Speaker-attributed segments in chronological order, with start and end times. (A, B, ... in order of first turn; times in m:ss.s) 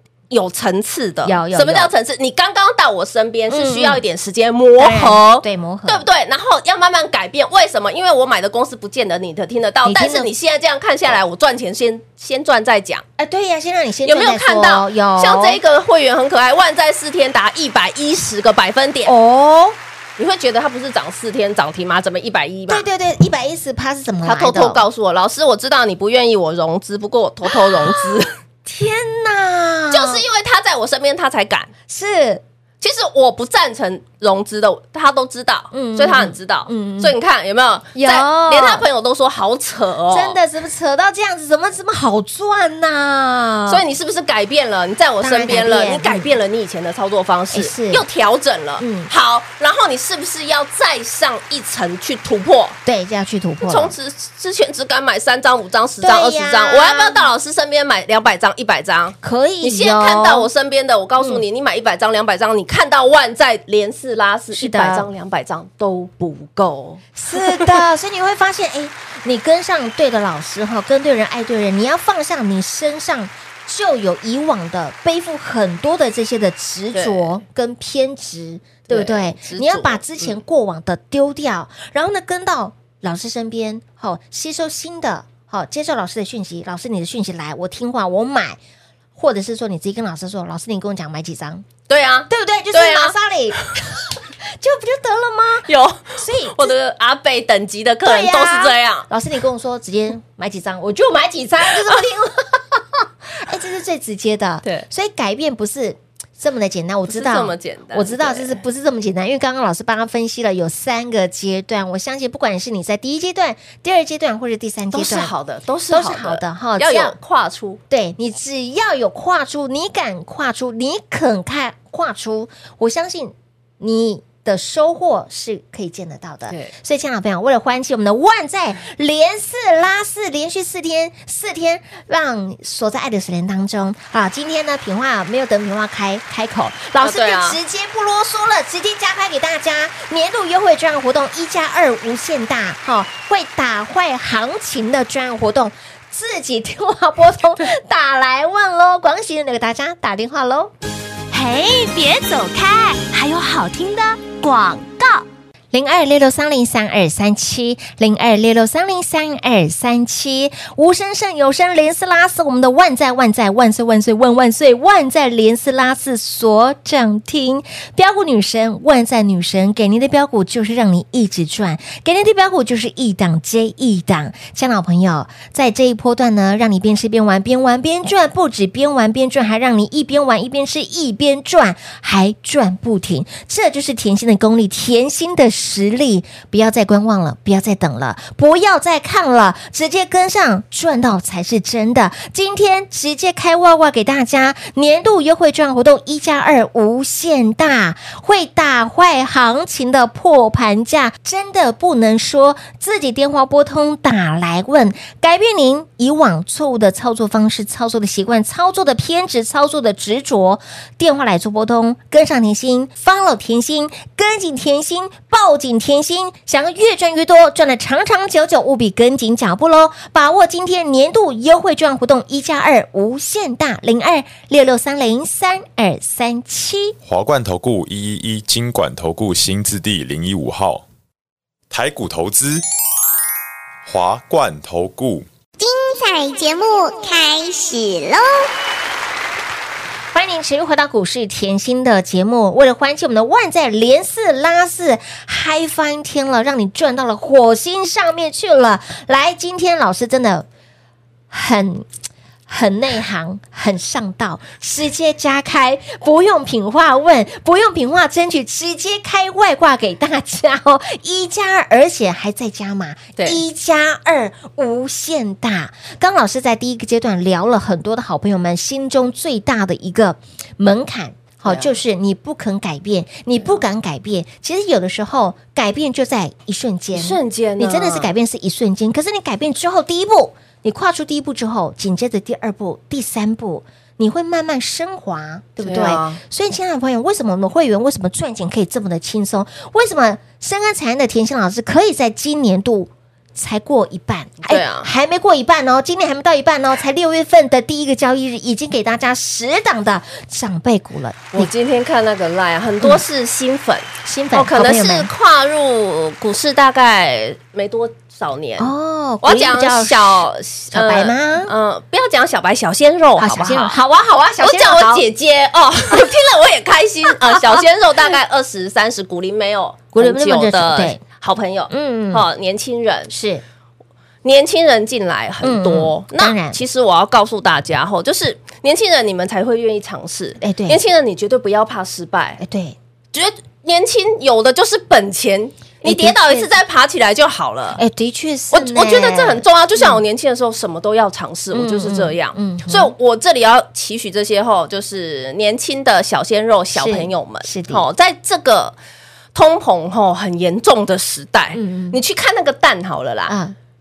0:00.3-0:13.0 A
0:01.2-0:01.9 B
0:03.5-0:04.0 B
0:04.8-0:06.0 B
0:09.8-0:10.3 B
0:13.2-0:15.6 B
0:14.0-0:19.1 A
0:19.0-0:19.8 B
0:20.2-0:22.8 A
0:22.7-0:24.8 B
0:24.2-0:28.3 A
0:27.4-0:30.2 B
0:29.9-0:31.7 A
0:31.9-0:32.4 B
0:32.8-0:40.4 A
0:35.7-0:37.1 B
0:37.9-0:38.8 B
0:40.1-0:43.8 B
0:43.7-0:52.8 A
0:45.2-0:46.3 B
0:47.5-0:48.0 B
0:48.8-0:49.1 B
0:52.8-0:53.9 B
0:53.6-1:07.8 A
0:56.0-0:57.3 B
0:59.2-1:00.5 B
1:01.2-1:01.4 B
1:04.5-1:05.1 B
1:07.2-1:28.6 B
1:16.9-1:17.4 A
1:18.9-1:20.3 A
1:29.2-1:31.6 B
1:31.9-1:33.1 A
1:32.3-1:36.7 B
1:35.7-1:39.1 A
1:38.0-1:55.3 B
1:47.1-1:48.6 A
1:54.9-1:57.8 A
1:55.9-1:57.1 B
1:57.9-2:30.7 B
2:17.0-2:17.6 A
2:31.3-2:35.2 C
2:35.7-3:47.0 B
3:47.0-3:50.8 D
3:51.7-3:52.6 D
3:53.8-3:55.3 D
3:55.6-3:58.4 E
4:00.1-4:10.4 B
4:11.3-4:11.9 B
4:12.5-5:01.5 B
4:23.2-4:23.4 A
4:31.4-4:31.7 A
4:36.9-4:38.1 A
4:45.6-4:46.2 A
4:54.4-4:54.9 A
5:01.3-5:08.7 A
5:04.0-5:05.1 B
5:08.6-5:11.5 B
5:09.2-5:13.8 A
5:13.2-5:15.0 B
5:14.4-5:23.1 A
5:19.9-5:21.0 B
5:21.7-5:22.2 B
5:23.1-5:23.4 B
5:24.2-5:32.4 A
5:25.4-5:26.6 B
5:30.4-5:30.8 B
5:32.4-5:32.8 B
5:33.1-5:37.8 A
5:35.8-5:36.5 B
5:37.8-5:40.0 B
5:38.5-5:48.7 A
5:41.5-5:42.9 B
5:46.7-5:47.8 B
5:49.3-5:53.3 A
5:51.5-5:52.0 B
5:53.3-5:53.6 B